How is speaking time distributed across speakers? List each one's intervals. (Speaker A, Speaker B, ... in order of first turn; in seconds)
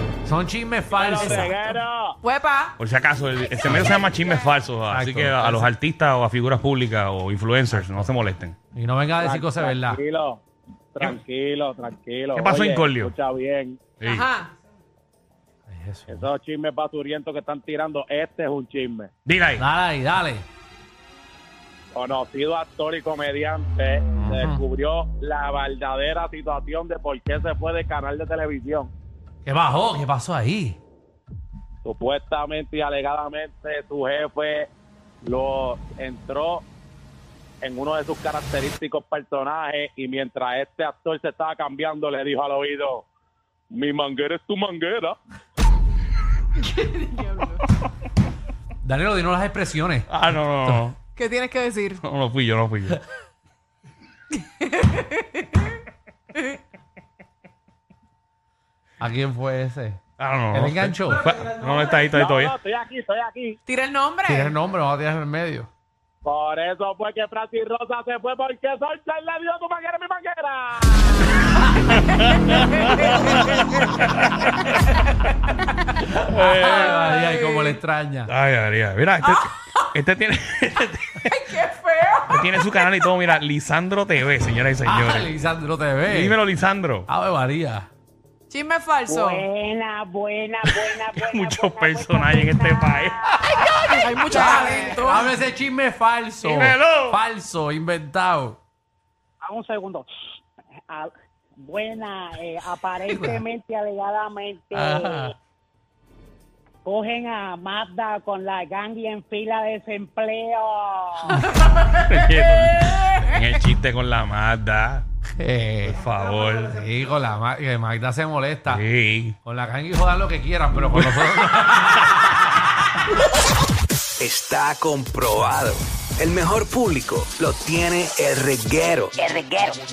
Speaker A: 0.2-1.8, 3.6-4.0, 4.9-5.7, 7.7-8.1, 8.7-10.0, 15.7-16.3, 19.6-20.4, 24.1-24.6, 29.4-30.8, 48.8-50.9, 59.0-61.3, 64.2-65.7, 76.2-78.3, 84.8-86.4, 87.1-87.9, 94.3-98.6, 103.1-103.4, 104.7-105.3, 115.4-116.1, 116.6-118.8, 119.4-122.5
Speaker B: 0.9-2.2, 9.2-10.4, 10.9-14.0, 16.1-19.1, 21.9-28.9, 31.8-34.7, 35.2-36.6, 37.6-43.0, 43.7-45.2, 62.0-63.6, 66.2-71.3
Speaker C: 2.2-2.8, 14.0-14.5, 46.6-47.6, 51.1-52.0, 54.3-55.8, 63.6-64.5, 71.9-73.5, 76.6-77.8, 79.2-79.8, 81.3-82.7, 88.5-89.5, 93.7-95.3, 111.3-113.5
Speaker D: 2.8-8.6, 12.3-13.1, 14.0-14.3, 19.2-19.6, 50.1-51.0, 52.0-53.0, 60.2-62.6, 72.1-74.5, 76.3-77.1, 78.3-81.3, 82.3-85.3, 86.0-87.1, 90.7-93.9, 96.4-97.2, 112.1-115.0, 115.8-116.8, 118.7-119.3, 120.8-121.3
Speaker E: 89.1-93.5, 94.2-95.0, 99.4-100.1, 100.9-105.3, 106.8-111.4
Speaker F: 124.2-129.2